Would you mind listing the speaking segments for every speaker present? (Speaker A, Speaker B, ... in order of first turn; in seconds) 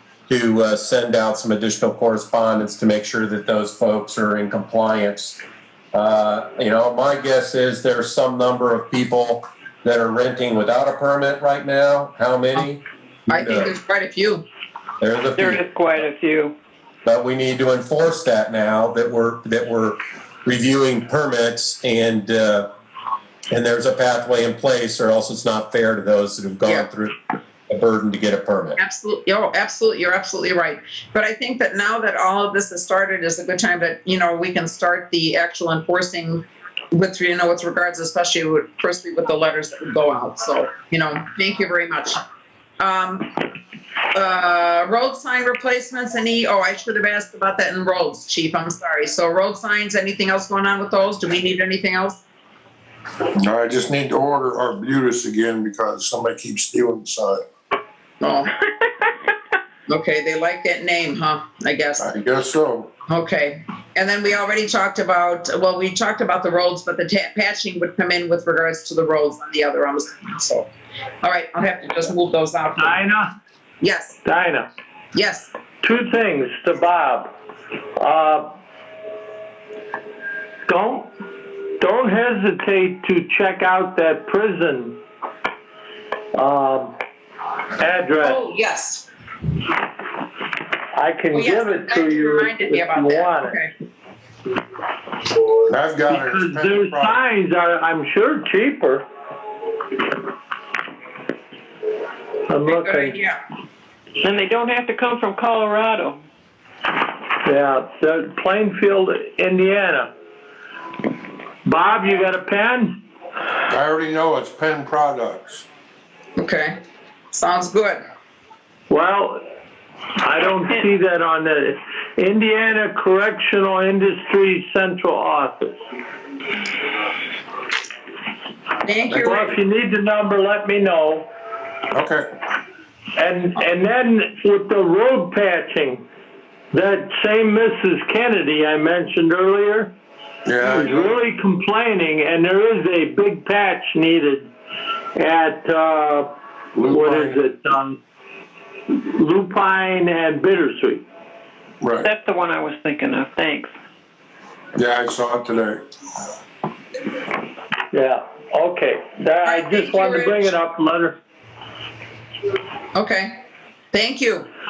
Speaker A: 0.3-5.4, 5.9-13.7, 15.0-15.6, 17.1-22.7, 23.5-27.1, 27.7-28.8
Speaker B: 13.3-14.4, 28.8-42.2, 42.8-43.4, 44.1-52.2, 58.2-58.6, 59.9-62.1, 63.1-70.7, 71.2-73.0, 73.8-74.2, 75.1-75.5, 88.2-89.1, 91.3-93.7, 102.7-103.4, 116.4-116.8, 117.3-118.0, 128.8-129.5, 159.4-160.5, 162.9-163.3, 163.9-164.5
Speaker C: 15.4-16.5, 104.2-106.2, 152.0-153.7
Speaker D: 53.3-57.4, 62.0-62.9, 95.7-97.2, 113.7-115.6, 131.9-132.3, 140.4-141.2, 146.7-147.4, 151.8-152.1, 154.8-155.8
Speaker E: 72.8-73.3, 74.2-74.7, 75.8-77.4, 78.0-78.6, 80.7-81.1, 81.8-85.0, 86.3-87.0, 87.8-88.4, 90.9-93.6, 96.1-99.1, 102.5-103.2, 107.4-110.1, 111.6-113.0, 118.9-119.5, 120.2-125.8, 129.2-131.3, 133.2-136.0, 136.7-139.9, 140.6-144.5, 145.1-146.3, 146.8-148.0, 148.9-151.0, 157.9-161.2